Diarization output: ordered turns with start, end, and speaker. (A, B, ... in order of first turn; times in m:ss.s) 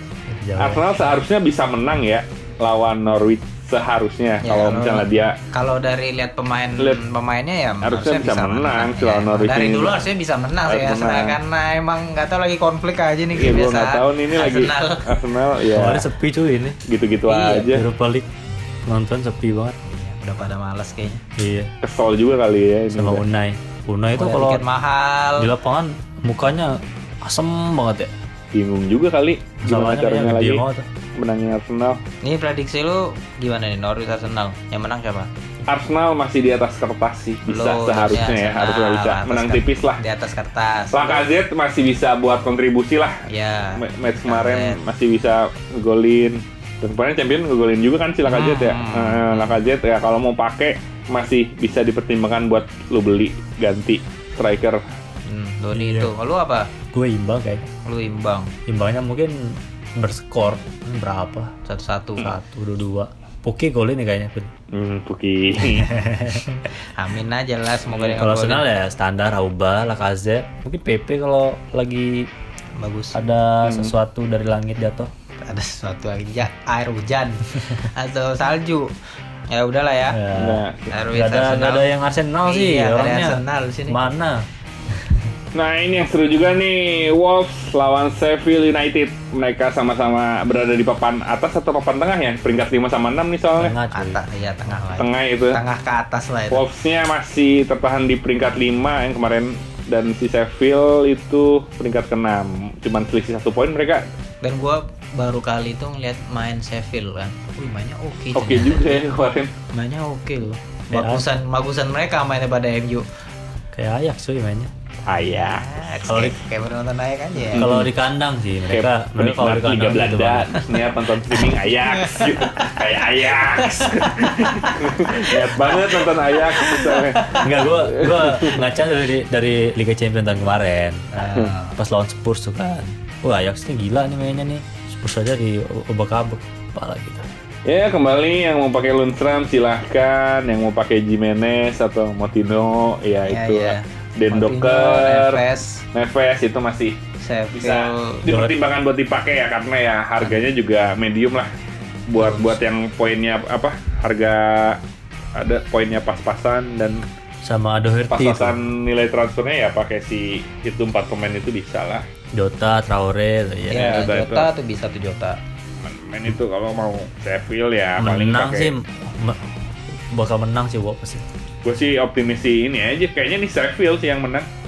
0:00.3-0:00.9 A
0:00.6-0:05.4 B
0:04.4-0:15.3 C
0:07.8-0:10.0 B
0:10.7-0:11.4 B
0:13.4-0:16.1 B
0:15.7-0:16.8 A
0:16.9-0:17.8 B
0:17.3-0:17.7 C
0:17.7-0:18.3 A
0:18.8-0:19.8 A
0:19.8-0:21.2 C
0:21.4-0:21.7 A
0:21.8-0:23.2 B
0:22.9-0:24.6 A
0:24.2-0:25.5 C
0:25.4-0:28.1 A
0:28.5-0:30.6 B
0:29.6-0:30.9 A
0:31.2-0:32.0 B
0:32.2-0:35.3 C
0:35.7-0:40.0 B
0:37.5-0:41.3 C
0:40.9-0:43.2 B
0:43.3-0:44.8 C
0:43.8-0:54.8 B
0:48.3-0:49.6 C
0:55.3-0:56.7 C
0:55.7-0:56.1 A
0:56.9-0:57.7 A
0:57.8-0:58.5 C
0:58.7-1:01.5 A
1:01.7-1:02.3 C
1:02.2-1:04.5 A
1:04.7-1:05.9 B
1:05.8-1:06.4 A
1:07.0-1:08.6 C
1:08.2-1:12.3 A
1:12.8-1:13.2 C
1:13.1-1:15.1 A
1:13.6-1:13.9 B
1:15.4-1:18.9 C
1:19.5-1:20.2 C
1:20.1-1:25.2 A
1:20.3-1:20.9 B
1:20.9-1:21.9 C
1:22.4-1:24.1 C
1:25.5-1:33.8 B
1:33.6-1:34.2 A
1:33.9-1:36.6 C
1:35.0-1:35.6 B
1:36.5-1:44.1 B
1:44.4-1:49.0 C
1:48.4-1:49.5 B
1:49.7-1:53.1 C
1:50.9-1:51.3 A
1:53.7-1:54.7 A
1:55.1-1:55.6 B
1:55.4-1:57.6 C
1:56.1-1:56.4 A
1:57.5-1:57.9 B
1:57.6-2:00.6 A
1:58.7-2:08.6 B
2:01.9-2:02.8 C
2:03.3-2:07.5 C
2:07.4-2:17.3 A
2:11.1-2:11.8 C
2:17.7-2:25.4 B
2:23.3-2:25.8 C
2:25.9-2:27.0 B
2:27.2-2:28.2 C
2:27.5-2:31.5 B
2:28.3-2:28.6 A
2:32.1-2:34.8 B
2:32.2-2:32.6 C
2:35.4-2:37.0 B
2:37.4-2:38.6 A
2:38.1-2:42.1 B
2:42.3-2:44.1 A
2:43.7-2:45.4 C
2:43.7-2:44.5 B
2:45.8-2:48.7 B
2:48.0-2:51.3 A
2:51.6-2:54.5 B